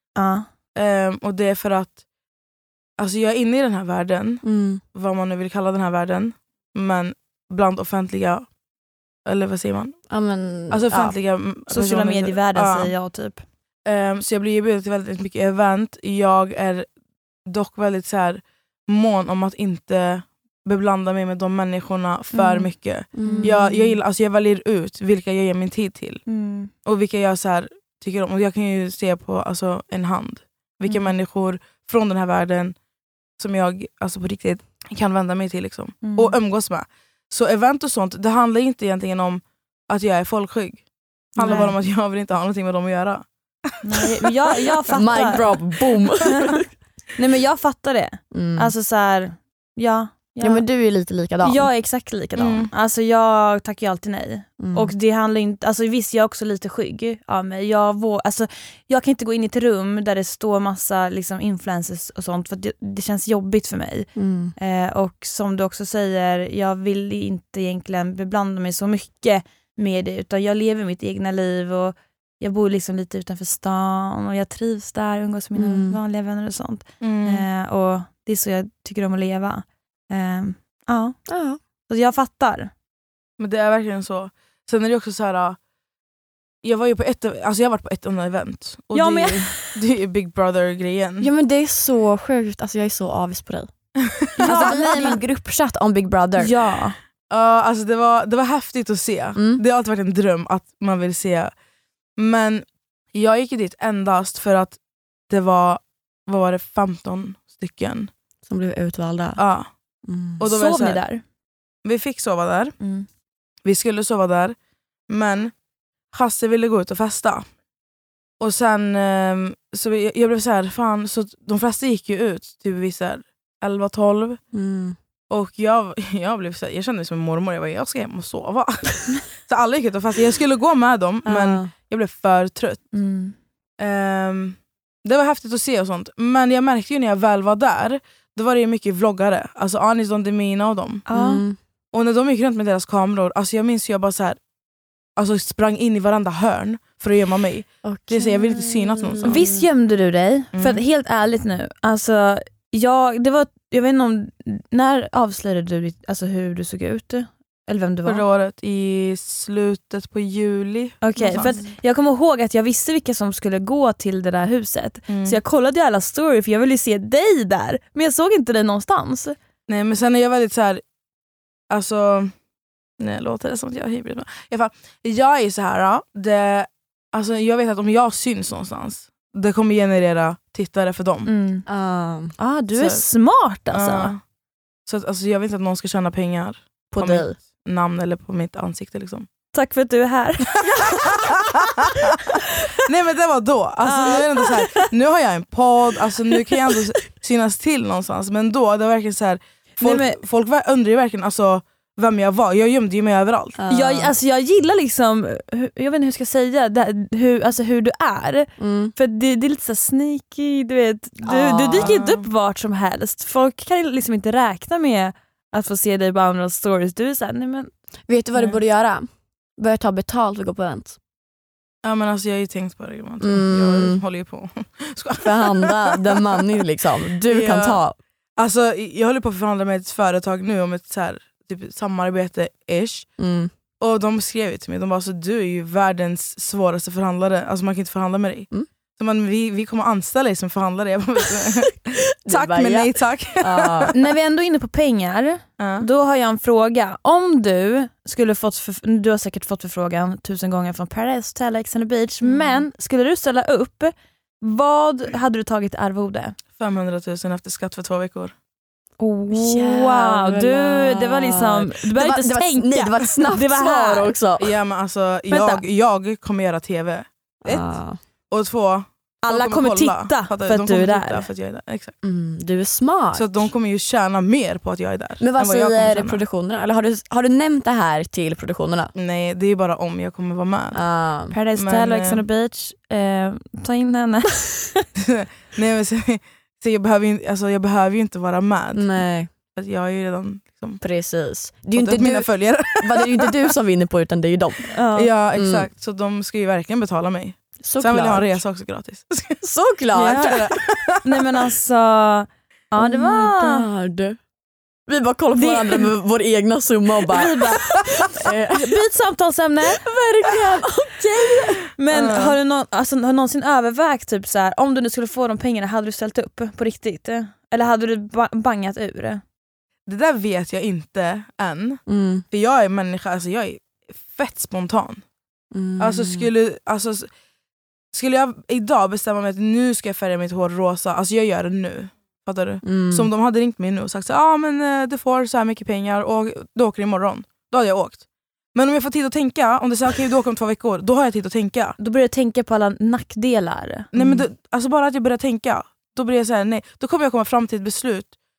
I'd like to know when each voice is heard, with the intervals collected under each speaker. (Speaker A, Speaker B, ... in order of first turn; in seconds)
Speaker A: 0.1-0.5, 11.7-13.4, 22.3-22.7, 23.2-23.6, 26.3-26.7, 36.0-36.4, 41.4-41.7, 43.8-45.6, 47.2-50.6, 51.4-81.2, 81.9-82.7, 88.9-89.8, 94.4-95.2, 96.4-97.0, 110.5-111.2, 112.8-113.0, 132.9-133.3, 141.1-141.4, 149.2-158.2, 161.0-169.3, 181.2-181.6, 182.4-184.1, 189.5-190.5, 193.8-194.9, 199.8-200.2, 203.7-217.7, 243.9-256.4, 259.0-264.1, 265.3-265.6, 269.2-271.3, 281.3-284.8, 294.7-295.1, 301.0-303.7, 305.4-305.9, 307.1-309.8, 311.2-319.2, 341.8-343.9
Speaker B: 0.7-1.9, 3.0-4.4, 4.9-8.4, 9.2-9.9, 10.7-12.9, 13.8-16.9, 17.5-26.2, 26.8-32.8, 33.4-40.8, 41.3-43.2, 52.4-52.7, 77.0-77.5, 83.4-85.6, 86.6-91.3, 94.2-95.1, 97.3-101.5, 102.2-104.8, 105.3-108.1, 109.4-109.7, 110.4-111.0, 111.8-112.7, 113.6-114.5, 115.1-115.5, 116.1-117.4, 118.4-124.4, 125.3-132.8, 133.8-141.0, 141.9-144.4, 145.2-149.4, 150.5-150.8, 158.0-161.6, 165.1-165.4, 169.7-170.8, 171.7-172.3, 173.0-181.3, 182.7-183.0, 183.7-184.2, 184.8-189.3, 190.7-203.6, 211.8-212.2, 221.8-226.4, 227.3-227.8, 228.4-233.1, 233.8-243.9, 245.6-245.8, 256.6-258.3, 264.4-267.6, 268.3-271.9, 273.1-276.2, 278.9-280.8, 281.6-282.2, 285.0-288.9, 289.5-290.8, 291.7-293.5, 294.9-299.4, 299.9-301.0, 311.9-312.4, 319.9-325.0, 325.8-327.1, 327.9-338.0, 338.5-341.8, 343.9-348.1
Speaker C: 4.4-4.8, 10.1-11.1, 23.1-23.9, 41.4-41.7, 44.9-46.6, 48.3-48.7, 50.4-51.7, 54.6-54.9, 64.1-64.5, 75.6-76.0, 81.3-81.6, 91.2-93.7, 94.4-96.5, 99.3-99.6, 108.5-109.4, 110.0-110.4, 124.5-125.0, 131.2-131.7, 141.1-141.6, 147.8-149.7, 181.7-182.3, 186.9-187.4, 203.6-204.1, 208.6-208.9, 211.2-211.9, 218.1-220.9, 223.2-224.0, 225.2-228.0, 233.2-233.5, 241.8-243.9, 252.2-252.6, 259.3-264.5, 267.4-268.0, 272.0-273.4, 275.2-278.9, 280.7-281.4, 288.7-289.3, 290.8-294.7, 295.3-295.7, 297.6-298.4, 299.4-300.5, 302.8-304.2, 304.9-308.8, 309.7-311.6, 321.9-322.2, 325.5-326.3, 332.6-333.1, 343.9-344.2